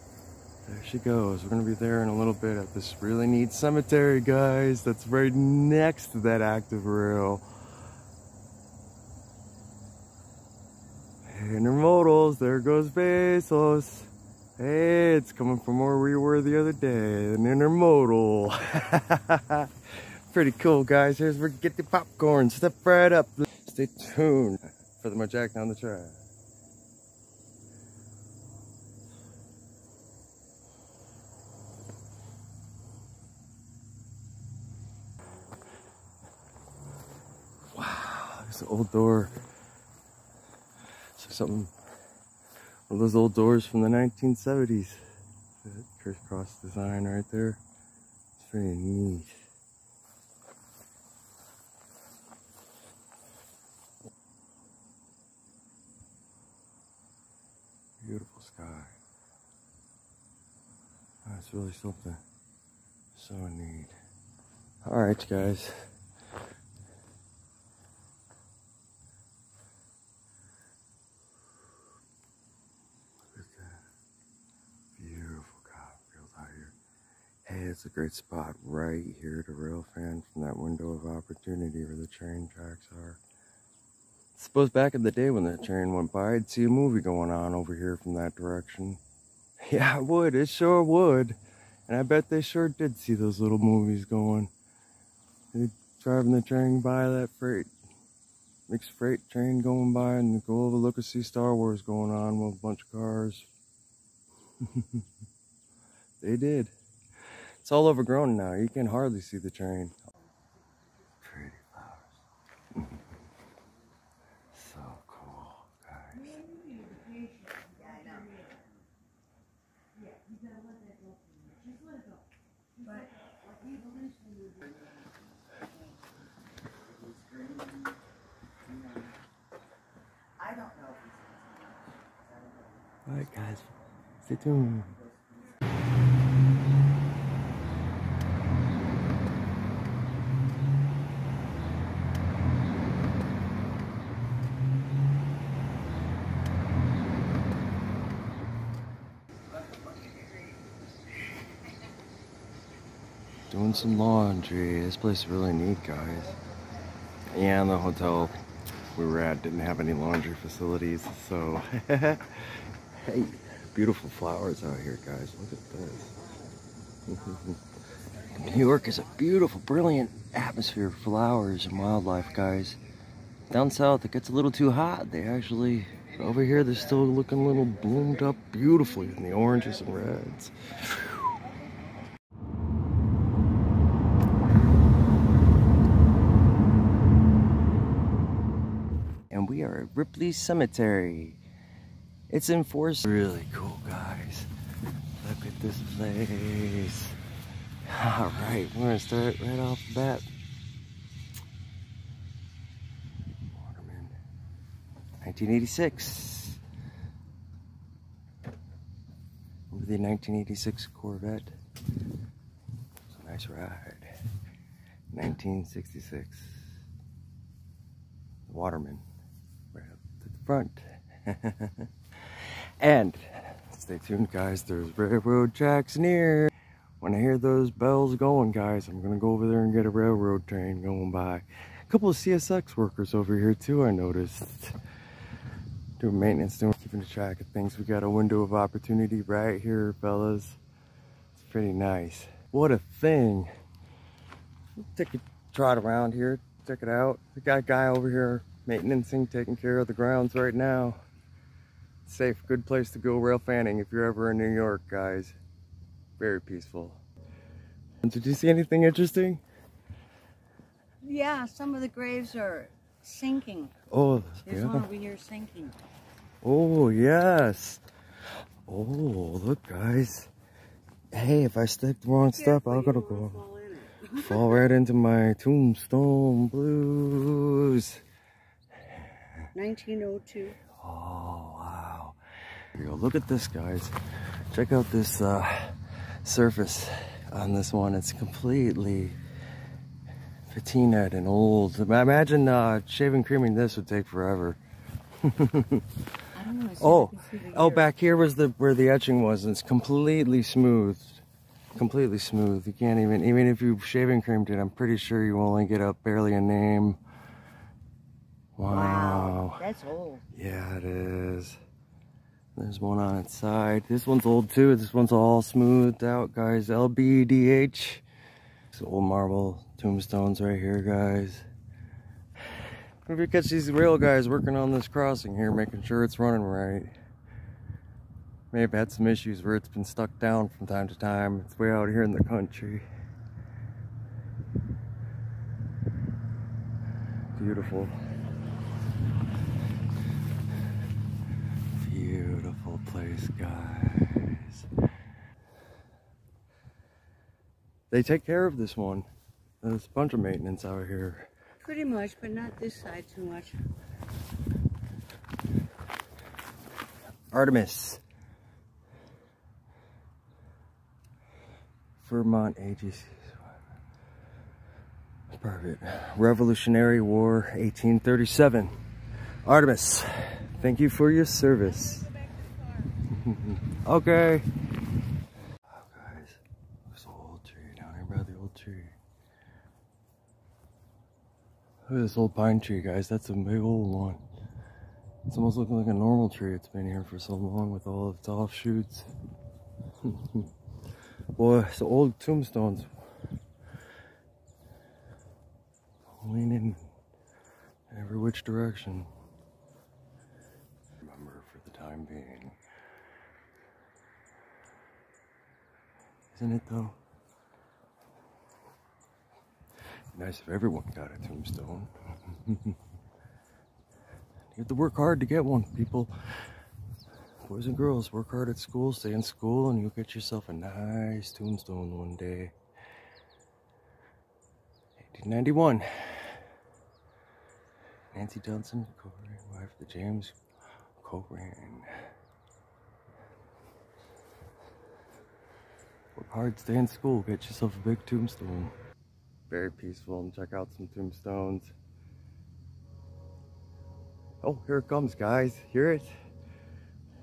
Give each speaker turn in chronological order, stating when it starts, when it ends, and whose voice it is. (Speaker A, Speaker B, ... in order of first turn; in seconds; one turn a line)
Speaker A: 0.6-7.5
Speaker A: 11.2-26.2
Speaker A: 37.7-39.4
Speaker A: 41.1-41.7
Speaker A: 42.9-45.0
Speaker A: 45.6-47.6
Speaker A: 48.4-49.3
Speaker A: 58.0-58.9
Speaker A: 61.2-62.2
Speaker A: 63.1-63.9
Speaker A: 64.8-65.9
Speaker A: 73.3-73.8
Speaker A: 74.9-76.7
Speaker A: 77.5-83.2
Speaker A: 84.3-89.0
Speaker A: 89.7-94.5
Speaker A: 95.5-97.7
Speaker A: 98.7-103.5
Speaker A: 104.6-105.0
Speaker A: 106.2-106.7
Speaker A: 107.6-109.9
Speaker A: 111.2-112.2
Speaker A: 114.5-116.4
Speaker B: 116.8-118.5
Speaker B: 120.1-122.2
Speaker B: 122.8-124.8
Speaker B: 127.1-127.7
Speaker B: 130.4-132.7
Speaker A: 133.1-133.7
Speaker A: 134.2-135.0
Speaker A: 153.5-156.3
Speaker A: 157.3-158.4
Speaker A: 158.9-166.2
Speaker A: 167.1-167.6
Speaker A: 168.3-172.8
Speaker A: 173.5-181.1
Speaker A: 189.3-191.4
Speaker A: 192.3-194.5
Speaker A: 195.2-197.2
Speaker A: 197.9-200.3
Speaker A: 203.5-204.2
Speaker A: 205.2-206.6
Speaker A: 209.7-211.5
Speaker A: 213.1-214.1
Speaker A: 215.1-216.7
Speaker A: 218.5-219.0
Speaker A: 219.7-234.8
Speaker A: 236.0-240.6
Speaker A: 241.3-243.5
Speaker A: 244.8-251.0
Speaker A: 252.0-255.3
Speaker A: 256.2-257.0
Speaker A: 258.0-259.4
Speaker B: 261.0-263.7
Speaker A: 263.9-264.9
Speaker B: 264.4-265.8
Speaker A: 266.4-267.8
Speaker A: 268.6-270.3
Speaker A: 271.1-273.4
Speaker B: 272.4-274.5
Speaker A: 274.1-278.0
Speaker B: 279.5-280.6
Speaker A: 280.8-282.2
Speaker A: 282.7-283.9
Speaker A: 284.5-289.2
Speaker A: 290.5-294.6
Speaker A: 295.2-296.0
Speaker B: 296.3-297.8
Speaker A: 296.8-301.2
Speaker A: 301.7-307.0
Speaker A: 308.6-309.6
Speaker B: 308.7-310.2
Speaker A: 310.3-311.6
Speaker A: 312.5-318.0
Speaker A: 318.7-321.4
Speaker A: 323.1-326.9
Speaker A: 328.5-332.9
Speaker A: 337.3-337.9
Speaker A: 341.7-344.7
Speaker A: 347.9-349.1
Speaker A: 349.6-351.3
Speaker B: 351.6-353.6
Speaker A: 357.3-358.0
Speaker A: 362.0-363.4
Speaker A: 365.3-368.7
Speaker A: 369.4-372.2
Speaker A: 373.1-374.5
Speaker A: 375.7-378.9
Speaker A: 381.9-384.2
Speaker A: 385.3-389.1
Speaker A: 390.0-390.5
Speaker A: 391.3-392.9
Speaker A: 396.2-396.9
Speaker A: 397.9-399.1
Speaker A: 401.0-402.6
Speaker A: 406.3-407.0
Speaker A: 410.1-412.8
Speaker A: 414.5-416.1
Speaker A: 417.4-422.5
Speaker A: 425.0-426.4
Speaker A: 428.1-430.4
Speaker A: 431.0-431.9
Speaker A: 436.1-438.7
Speaker A: 439.5-441.7
Speaker A: 444.4-446.1